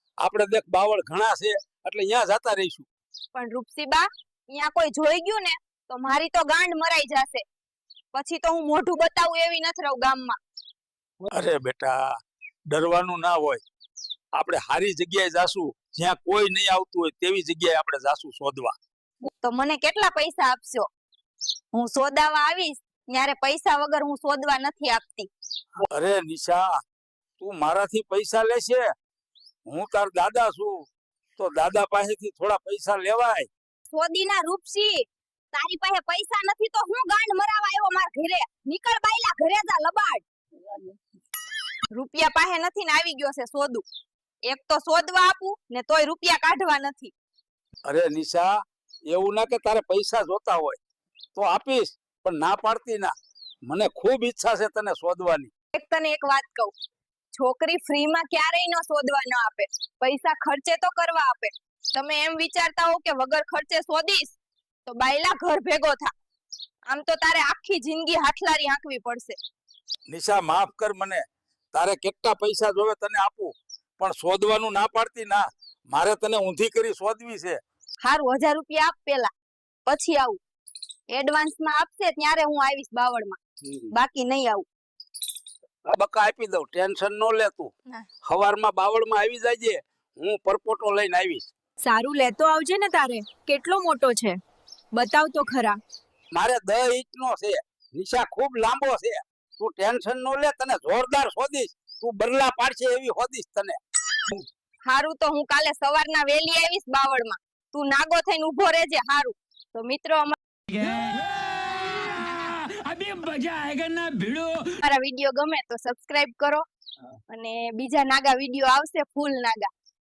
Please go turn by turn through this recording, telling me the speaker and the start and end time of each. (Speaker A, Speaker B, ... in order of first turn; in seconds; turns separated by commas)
Speaker A: 0.2-2.9, Speaker B: 3.4-7.4, Speaker B: 8.1-10.4, Speaker A: 11.3-12.2, Speaker A: 12.7-13.6, Speaker A: 14.3-18.8, Speaker B: 19.4-20.9, Speaker B: 21.7-25.3, Speaker A: 25.9-26.7, Speaker A: 27.4-28.9, Speaker A: 29.7-30.9, Speaker A: 31.4-33.5, Speaker B: 33.9-40.2, Speaker B: 41.9-43.8, Speaker B: 44.5-47.1, Speaker A: 47.9-48.5, Speaker A: 49.1-50.8, Speaker A: 51.4-53.1, Speaker A: 53.7-55.5, Speaker B: 55.8-56.7, Speaker B: 57.4-64.4, Speaker B: 64.9-66.1, Speaker B: 66.9-69.4, Speaker A: 70.1-77.6, Speaker B: 78.0-79.3, Speaker B: 79.9-80.4, Speaker B: 81.1-83.4, Speaker B: 84.0-84.7, Speaker A: 85.9-87.7, Speaker A: 88.2-91.5, Speaker C: 91.8-94.4, Speaker C: 94.9-95.8, Speaker A: 96.3-103.8, Speaker B: 104.9-110.4, Speaker D: 110.8-114.6, Speaker B: 114.8-116.6, Speaker B: 117.3-119.7